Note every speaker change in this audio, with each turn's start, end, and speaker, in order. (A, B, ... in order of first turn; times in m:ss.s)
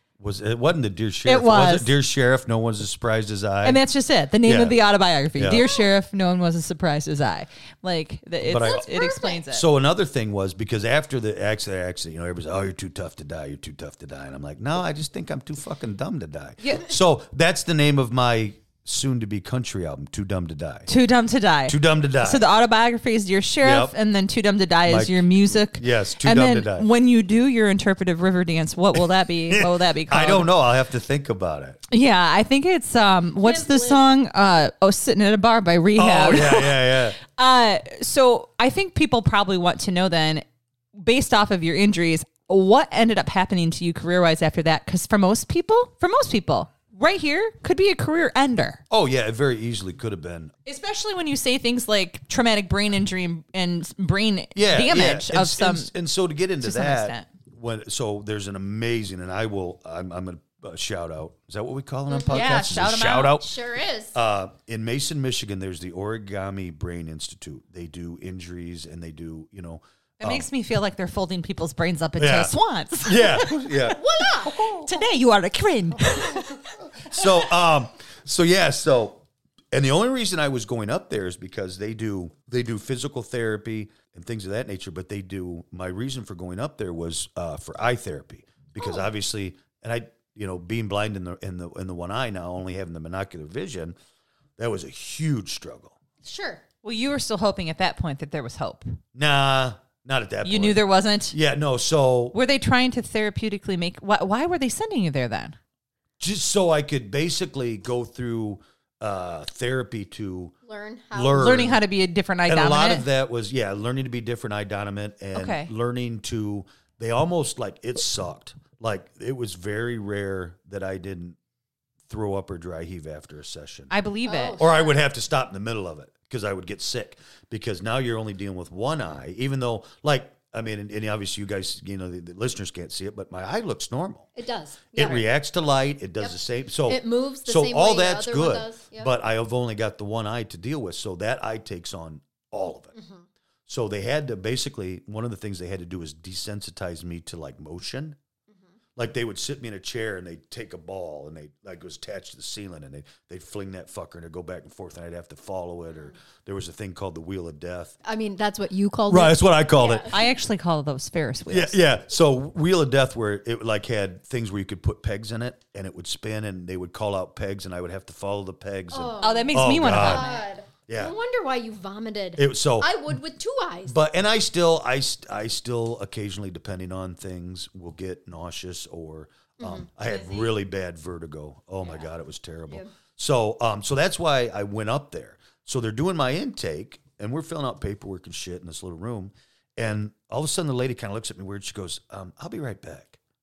0:00.2-0:03.8 A
0:01.3-0:01.9 B
0:03.6-0:09.7 B
0:04.4-0:04.8 A
0:05.4-0:05.6 A
0:05.5-0:05.9 C
0:08.4-0:08.9 A
0:08.6-0:09.4 C
0:09.5-0:20.9 A
0:20.9-0:30.5 B
0:21.7-0:22.5 A
0:23.6-0:23.9 A
0:24.9-0:26.9 A
0:29.0-0:31.8 A
0:31.9-0:48.8 B
0:33.4-0:34.1 C
0:36.0-0:37.2 A
0:48.9-0:50.5 A
0:50.7-0:55.9 B
0:54.6-1:03.5 A
0:56.6-0:57.3 B
1:02.1-1:02.4 C
1:02.3-1:03.4 B
1:03.4-1:04.1 C
1:04.1-1:10.5 A
1:10.2-1:13.6 B
1:12.2-1:12.5 A
1:13.0-1:14.8 A
1:13.9-1:14.9 C
1:14.5-1:16.6 B
1:17.0-1:34.0 A
1:28.8-1:29.0 C
1:34.6-1:36.0 A
1:36.2-1:36.6 C
1:36.8-1:39.0 B
1:39.2-1:42.4 A
1:40.4-1:41.4 B
1:42.3-1:45.6 B
1:46.2-1:50.5 A
1:50.7-1:51.7 C
1:51.1-1:51.8 A
1:51.3-1:53.0 B
1:52.5-2:01.4 A
1:55.4-1:55.7 B
2:02.1-2:03.9 A
2:03.9-2:04.6 B
2:04.2-2:05.0 C
2:04.6-2:14.3 A
2:14.4-2:15.3 C
2:15.0-2:22.9 A
2:16.2-2:19.1 C
2:22.9-2:23.2 C
2:23.7-2:28.2 A
2:29.0-2:38.0 A
2:38.0-2:40.2 C
2:39.1-2:40.1 A
2:40.0-2:41.8 B
2:41.5-2:50.3 A
2:48.9-2:54.0 C
2:49.2-2:50.5 B
2:50.9-2:51.1 A
2:52.4-2:53.1 A
2:53.9-3:13.2 A
2:59.6-2:59.9 C
3:00.0-3:00.5 B